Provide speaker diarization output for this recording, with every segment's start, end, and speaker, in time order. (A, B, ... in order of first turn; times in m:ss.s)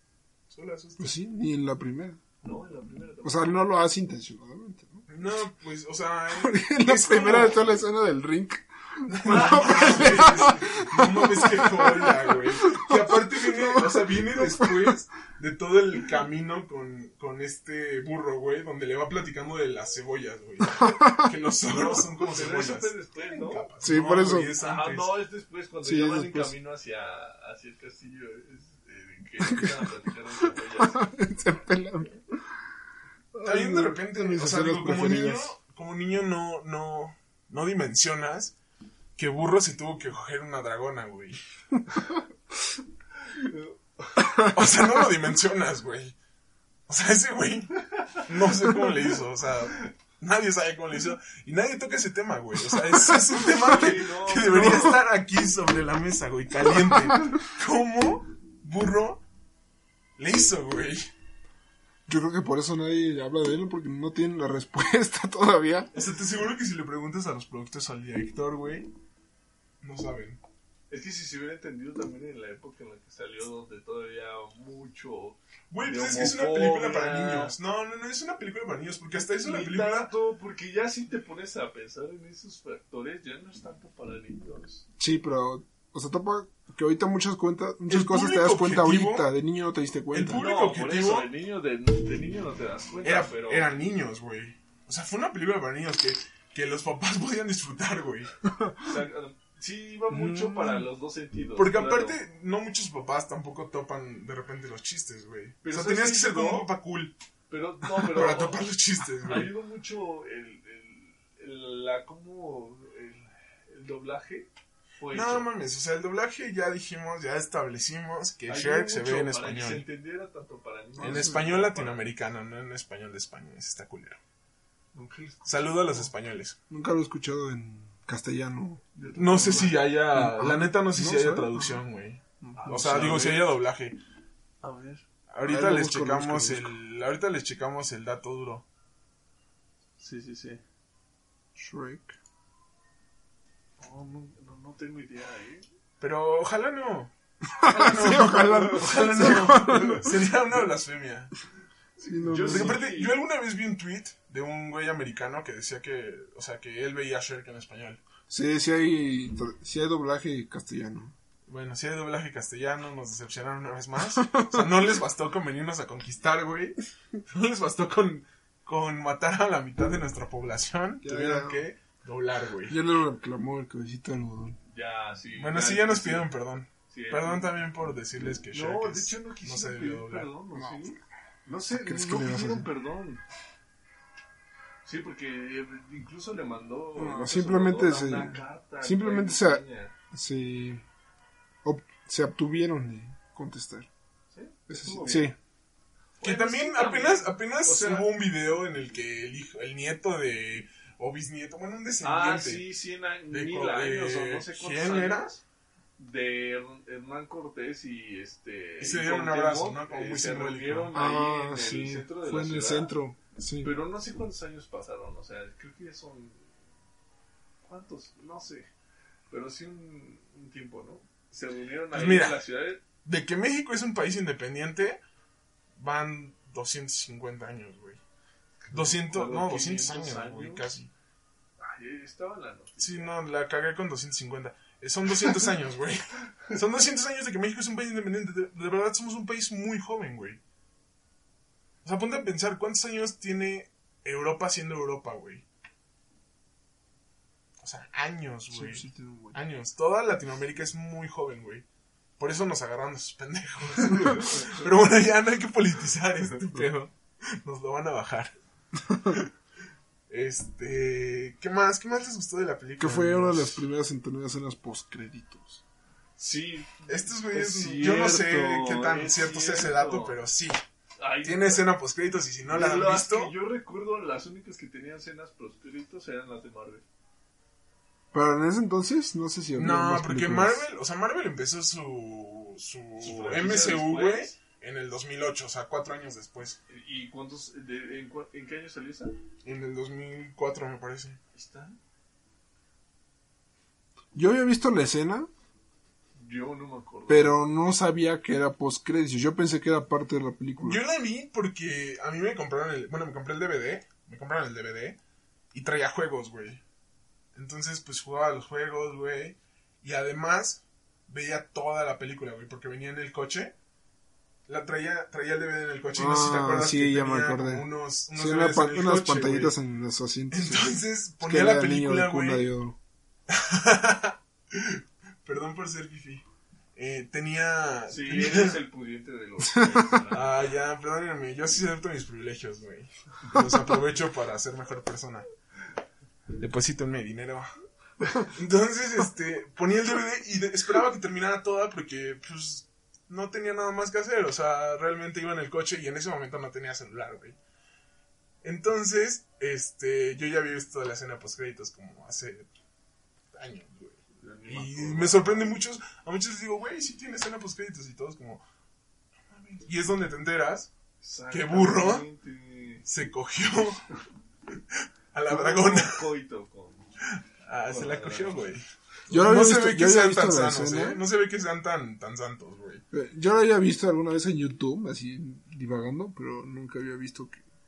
0:00.5-0:01.1 A
0:01.0-0:02.2 B
0:02.4-0:03.6 C
0:03.2-0:05.0 B
0:05.1-0:07.8 A
0:06.4-0:14.9 B
0:09.1-0:25.2 A
0:09.2-0:10.7 C
0:20.6-0:21.3 B
0:22.1-0:31.0 C
0:23.8-0:24.6 B
0:25.8-0:26.5 B
0:29.4-0:29.9 B
0:30.7-0:32.2 B
0:33.4-0:35.5 B
0:33.4-0:38.5 A
0:39.2-0:41.4 A
0:43.3-0:44.3 C
0:44.5-0:46.2 A
0:46.9-0:59.2 A
0:47.9-0:48.2 C
0:53.4-0:54.9 C
1:00.2-1:01.1 A
1:02.1-1:05.9 B
1:05.9-1:08.9 A
1:09.8-1:10.4 A
1:10.9-1:17.5 C
1:15.7-1:20.1 A
1:19.4-1:24.8 C
1:25.0-1:30.5 B
1:27.9-1:29.3 A
1:30.1-1:31.3 A
1:30.3-1:33.6 C
1:33.0-1:38.4 A
1:38.8-1:42.2 C
1:40.1-1:40.8 B
1:41.6-1:47.1 A
1:45.6-1:46.7 C
1:47.5-1:48.6 C
1:48.1-1:49.5 A
1:49.2-1:54.5 C
1:55.0-1:55.5 C
1:55.1-1:59.8 A
1:58.5-2:02.0 C
2:01.0-2:01.4 B
2:01.0-2:04.2 A
2:04.9-2:06.1 C
2:05.4-2:06.6 A
2:06.7-2:08.8 B
2:08.9-2:09.8 C
2:09.1-2:14.0 A
2:10.1-2:11.8 B
2:12.4-2:13.3 B
2:12.6-2:13.5 C
2:14.6-2:15.0 C
2:15.3-2:18.6 A
2:15.4-2:16.7 B
2:20.0-2:20.6 C
2:21.6-2:22.2 B
2:23.8-2:25.6 C
2:26.0-2:31.4 A
2:27.6-2:30.2 B
2:27.9-2:30.1 C
2:32.0-2:33.2 C
2:32.0-2:32.8 B
2:32.3-2:38.0 A
2:38.3-2:41.1 B
2:41.5-2:52.8 A
2:44.2-2:44.6 B
2:51.0-2:51.6 B
2:52.7-2:54.6 B
2:54.7-2:56.3 C
2:55.4-3:00.3 A
2:56.9-2:57.5 C
2:58.5-3:03.2 C
3:00.5-3:00.9 B
3:01.7-3:02.7 B
3:04.8-3:09.9 C
3:07.0-3:10.8 B
3:11.6-3:13.9 B
3:14.3-3:15.3 C
3:14.7-3:15.4 B
3:16.2-3:18.1 C
3:16.2-3:22.6 A
3:22.0-3:25.4 C
3:23.3-3:25.3 A
3:26.0-3:32.9 C
3:28.8-3:31.0 A
3:30.9-3:33.7 B
3:33.6-3:36.6 C
3:37.6-3:38.7 C
3:39.3-3:42.8 C
3:41.9-3:42.4 A
3:43.0-3:45.0 A
3:45.8-3:48.0 A
3:48.6-3:50.7 C
3:48.7-3:50.9 A
3:51.6-3:53.1 C
3:52.8-4:00.4 A
4:01.8-4:05.4 A
4:07.6-4:11.6 A
4:08.5-4:09.4 B
4:12.2-4:18.3 A
4:13.7-4:14.7 C
4:18.9-4:19.3 A
4:20.1-4:23.6 A
4:22.8-4:25.6 B
4:26.2-4:30.2 C
4:26.9-4:30.6 A
4:31.0-4:31.6 C
4:31.2-4:33.3 A
4:32.5-4:36.8 C
4:38.1-4:40.6 B
4:39.6-4:46.6 A
4:43.0-4:44.4 C
4:46.7-4:49.1 C
4:49.4-4:51.2 A
4:51.3-4:51.8 C
4:54.1-4:55.3 B
4:56.2-4:57.3 C
4:57.1-5:00.8 B
5:00.6-5:05.0 A
5:05.5-5:06.6 A
5:07.3-5:13.5 A
5:14.5-5:19.6 A
5:16.0-5:22.8 B
5:20.3-5:22.5 A
5:23.3-5:28.6 A
5:27.9-5:30.4 C
5:29.5-5:30.0 B
5:30.1-5:35.3 A
5:36.4-5:37.5 A
5:38.2-5:47.4 A
5:48.4-5:52.5 A
5:53.3-5:58.4 A
5:54.2-5:55.5 C
5:59.3-6:00.7 A
6:01.0-6:02.8 C
6:01.3-6:02.0 A
6:02.8-6:03.9 A
6:05.1-6:06.1 A
6:05.3-6:06.9 C
6:07.4-6:12.8 A
6:07.7-6:08.4 C
6:09.1-6:11.0 B
6:12.9-6:17.4 B